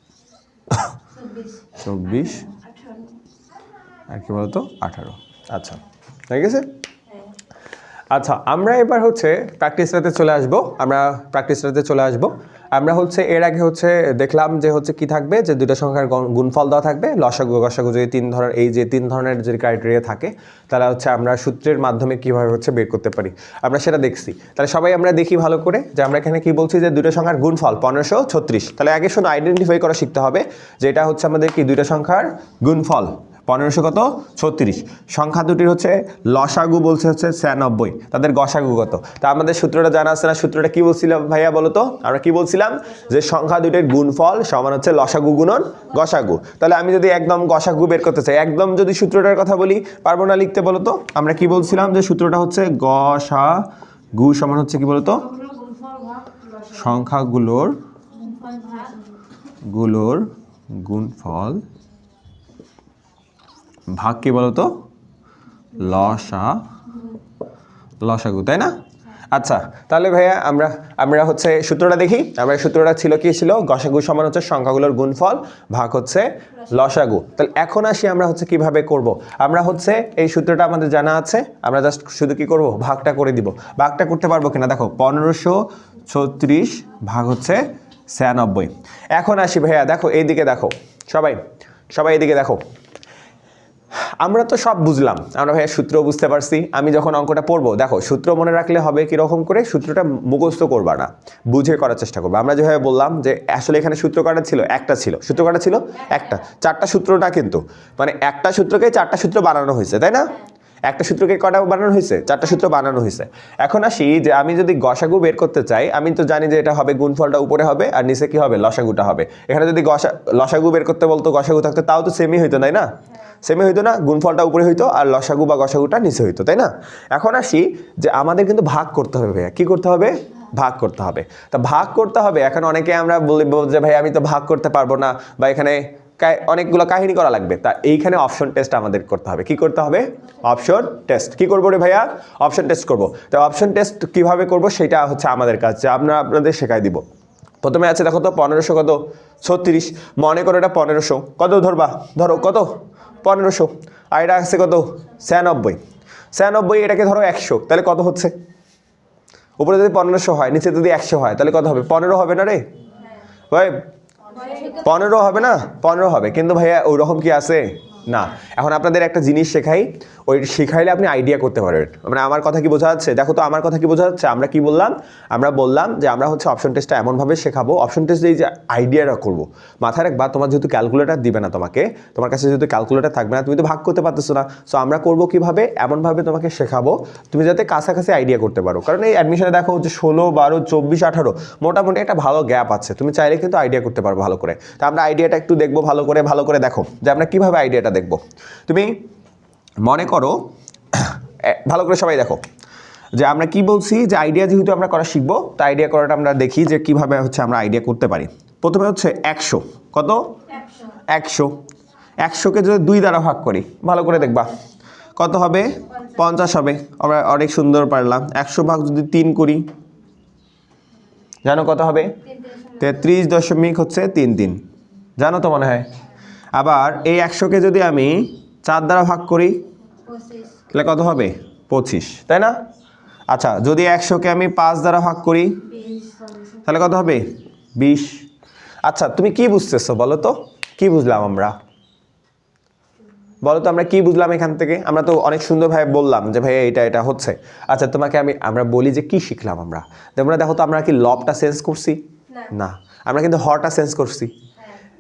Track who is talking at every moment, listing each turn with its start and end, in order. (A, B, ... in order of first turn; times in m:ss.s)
0:01.1-0:03.1 A
0:01.8-0:02.5 B
0:04.1-0:06.7 B
0:07.1-0:07.3 A
0:08.1-0:55.3 B
0:55.3-0:56.8 A
0:56.7-0:57.8 B
0:58.1-0:59.2 A
0:59.7-1:01.6 B
1:03.9-1:04.7 B
1:05.8-1:06.6 B
1:08.0-1:08.8 B
1:09.3-1:31.4 B
1:31.9-1:32.6 B
1:34.2-1:50.4 B
1:46.0-1:46.4 A
1:50.9-2:02.9 B
2:03.4-2:27.0 B
2:27.6-2:35.8 B
2:36.3-2:38.3 B
2:39.6-2:42.6 B
2:43.5-2:43.8 B
2:44.3-2:45.5 A
2:44.8-3:18.9 B
3:19.8-3:22.4 B
3:23.2-3:30.3 B
3:30.5-3:31.0 A
3:31.1-3:31.6 B
3:32.2-3:34.6 B
3:35.2-3:39.7 B
3:41.4-3:42.2 B
3:42.2-3:43.1 A
3:42.8-3:44.6 B
3:45.2-3:45.9 B
3:46.6-3:49.6 B
3:50.1-3:50.6 A
3:50.7-3:52.6 B
3:53.3-3:55.7 B
3:55.7-3:56.6 A
3:56.6-3:58.2 B
3:58.9-4:01.5 B
4:03.4-4:12.0 B
4:12.5-4:14.3 B